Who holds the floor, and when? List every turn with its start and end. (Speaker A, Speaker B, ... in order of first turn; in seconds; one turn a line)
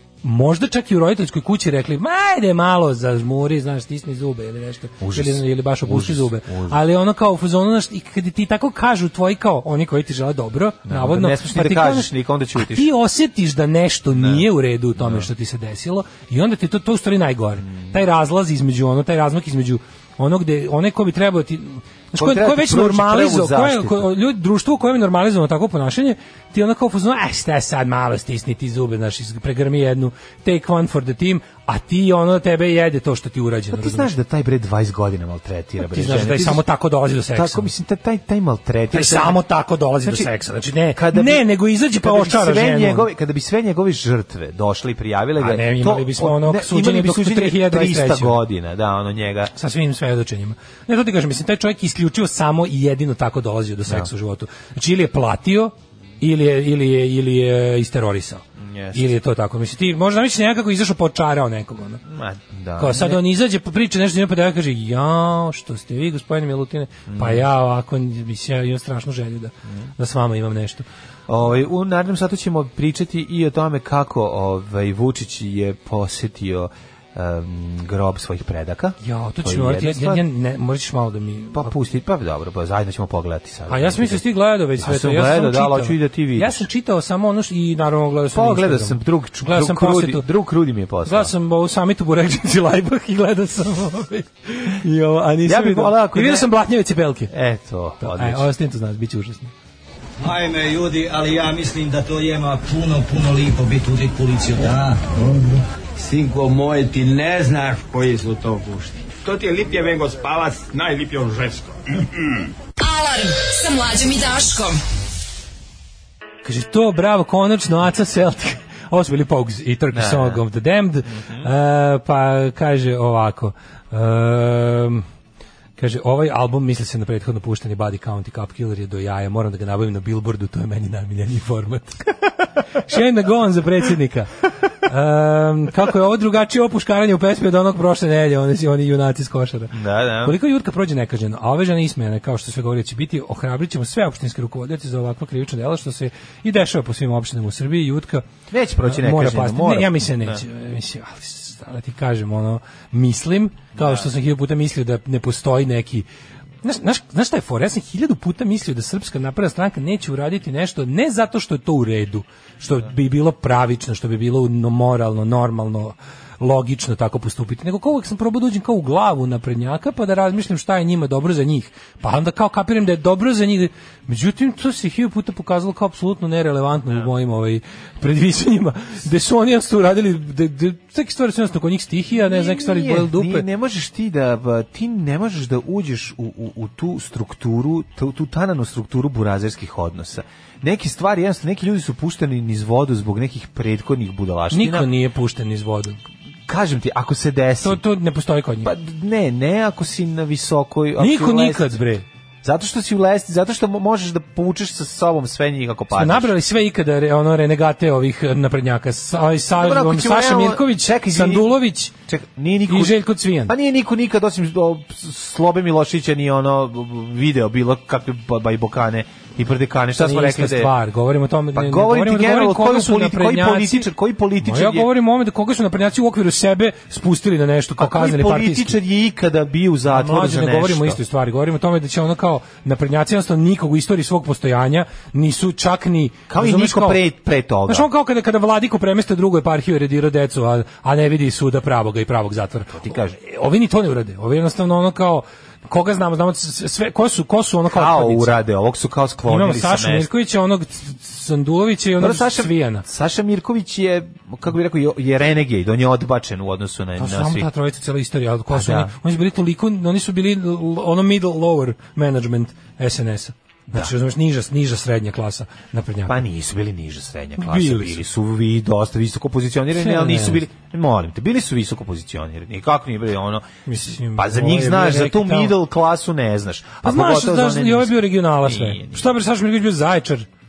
Speaker A: 0.2-34.1
Speaker B: 5.0-6.8
Speaker B: 10.9-12.9
Speaker B: 14.1-15.3
Speaker B: 17.6-18.0
Speaker B: 22.2-24.1
Speaker B: 33.7-36.7
Speaker A: 35.8-37.7
Speaker B: 37.3-39.4
Speaker A: 38.9-43.1
Speaker B: 40.0-40.3
Speaker B: 40.9-49.5
Speaker A: 45.4-48.4
Speaker A: 49.5-62.0
Speaker B: 58.6-59.2
Speaker B: 62.0-63.2
Speaker A: 62.8-70.9
Speaker B: 67.1-67.5
Speaker B: 71.3-80.2
Speaker A: 79.0-81.7
Speaker B: 81.5-84.2
Speaker A: 83.7-90.3
Speaker B: 84.8-86.7
Speaker B: 88.3-91.3
Speaker A: 91.0-97.3
Speaker B: 95.5-96.5
Speaker B: 97.3-98.5
Speaker A: 98.0-99.5
Speaker C: 100.2-112.5
Speaker D: 112.8-114.8
Speaker A: 116.4-125.0
Speaker B: 119.9-120.4
Speaker B: 121.1-121.5
Speaker A: 125.8-132.1
Speaker A: 132.8-148.3
Speaker B: 139.7-140.4
Speaker B: 148.5-150.4
Speaker A: 148.8-156.1
Speaker B: 153.8-154.1
Speaker A: 156.6-183.5
Speaker B: 182.1-194.9
Speaker A: 194.5-196.0
Speaker B: 196.5-197.8
Speaker A: 197.6-198.7
Speaker B: 198.6-201.8
Speaker A: 201.0-202.1
Speaker B: 202.4-206.3
Speaker A: 205.9-211.9
Speaker B: 209.5-220.8
Speaker A: 212.7-213.5
Speaker A: 220.0-223.9
Speaker B: 221.5-224.9
Speaker A: 224.4-228.8
Speaker B: 227.8-231.0
Speaker A: 229.9-237.0
Speaker B: 236.3-237.9
Speaker A: 237.7-248.4
Speaker B: 242.7-243.2
Speaker B: 247.7-250.1
Speaker A: 249.3-252.8
Speaker B: 252.0-257.5
Speaker A: 257.0-266.2
Speaker B: 258.5-258.9
Speaker B: 266.1-279.2
Speaker A: 267.4-268.0
Speaker A: 269.7-270.4
Speaker A: 273.7-275.6
Speaker A: 276.8-280.3